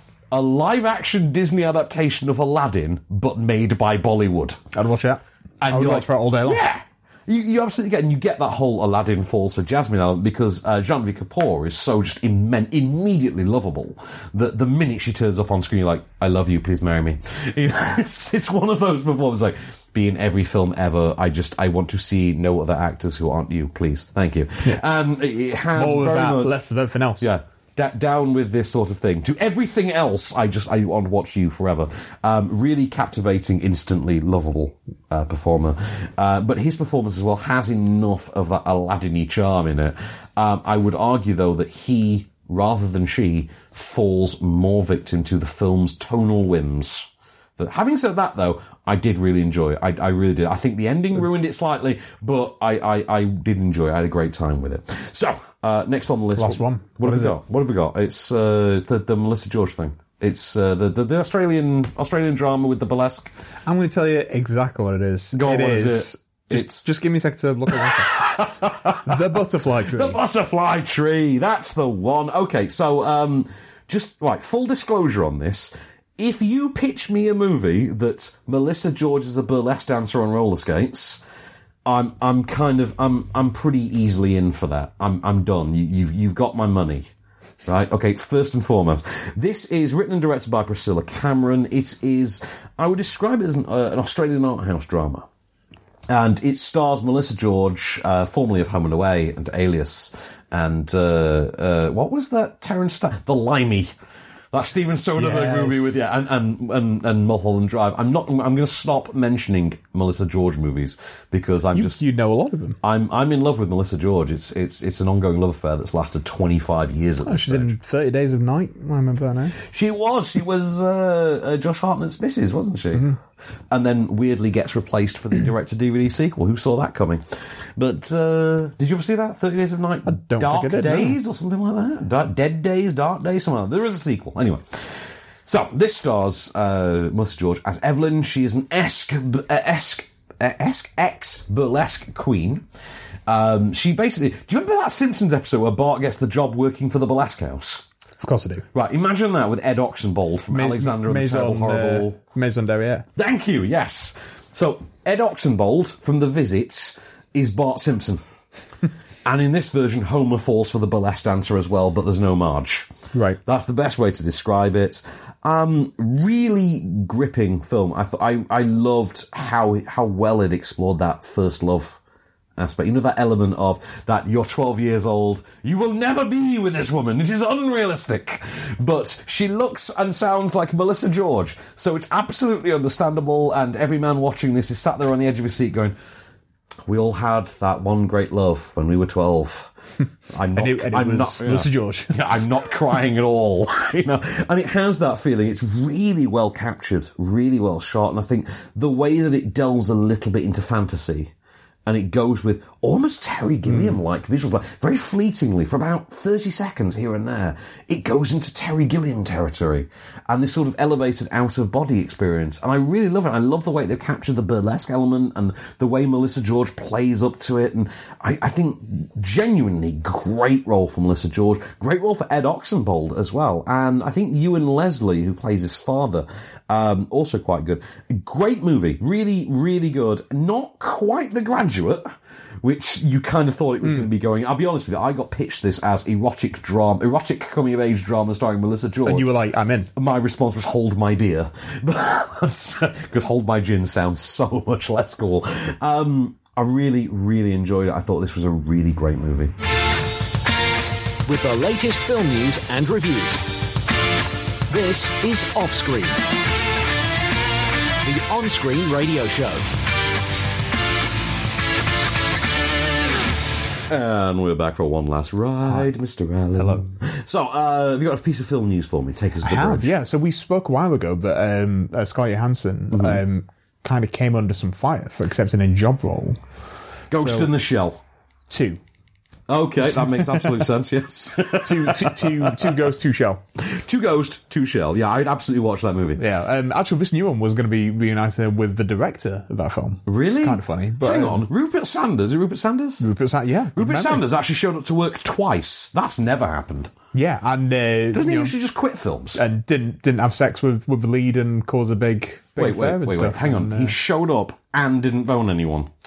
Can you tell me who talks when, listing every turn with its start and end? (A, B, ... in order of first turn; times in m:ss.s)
0:00.3-0:04.6 A
0:04.7-0:06.6 B
0:05.6-0:26.6 A
0:25.7-0:27.3 B
0:27.2-1:03.3 A
0:56.4-0:57.4 B
1:03.6-1:08.2 B
1:05.3-1:06.8 A
1:08.0-1:21.2 A
1:09.0-1:10.2 B
1:21.8-1:27.1 A
1:27.7-1:35.2 A
1:36.1-1:43.9 A
1:44.5-1:52.0 A
1:45.2-1:46.0 B
1:51.7-1:52.8 B
1:52.8-1:57.7 A
1:57.2-1:59.6 B
1:59.6-2:03.1 A
2:03.7-2:22.6 A
2:10.0-2:11.2 B
2:23.3-2:27.8 A
2:28.2-2:28.6 B
2:28.7-2:32.2 A
2:30.5-2:33.1 B
2:33.2-2:38.2 A
2:39.2-2:52.0 A
2:43.1-2:43.4 B
2:52.6-3:06.0 A
3:06.9-3:09.7 A
3:10.3-3:21.3 A
3:10.5-3:12.2 B
3:21.8-3:52.1 A
3:23.6-3:24.0 B
3:52.6-3:59.3 A
3:59.0-3:59.9 B
3:59.9-4:09.5 A
4:11.2-4:13.4 C
4:14.7-4:16.2 C
4:18.0-4:19.6 C
4:23.9-4:29.9 A
4:26.6-4:26.9 B
4:29.4-4:36.4 B
4:32.9-4:33.2 A
4:37.1-4:38.0 A
4:37.1-4:37.5 B
4:38.5-4:38.8 B
4:39.5-4:42.8 A
4:39.9-4:40.6 B
4:41.6-4:43.4 B
4:43.6-4:46.2 A
4:46.2-4:51.5 B
4:50.0-4:53.1 A
4:53.0-4:54.2 B
4:53.7-4:56.9 A
4:57.1-4:58.5 B
4:58.1-4:59.4 A
4:59.3-5:04.0 B
5:02.6-5:05.9 A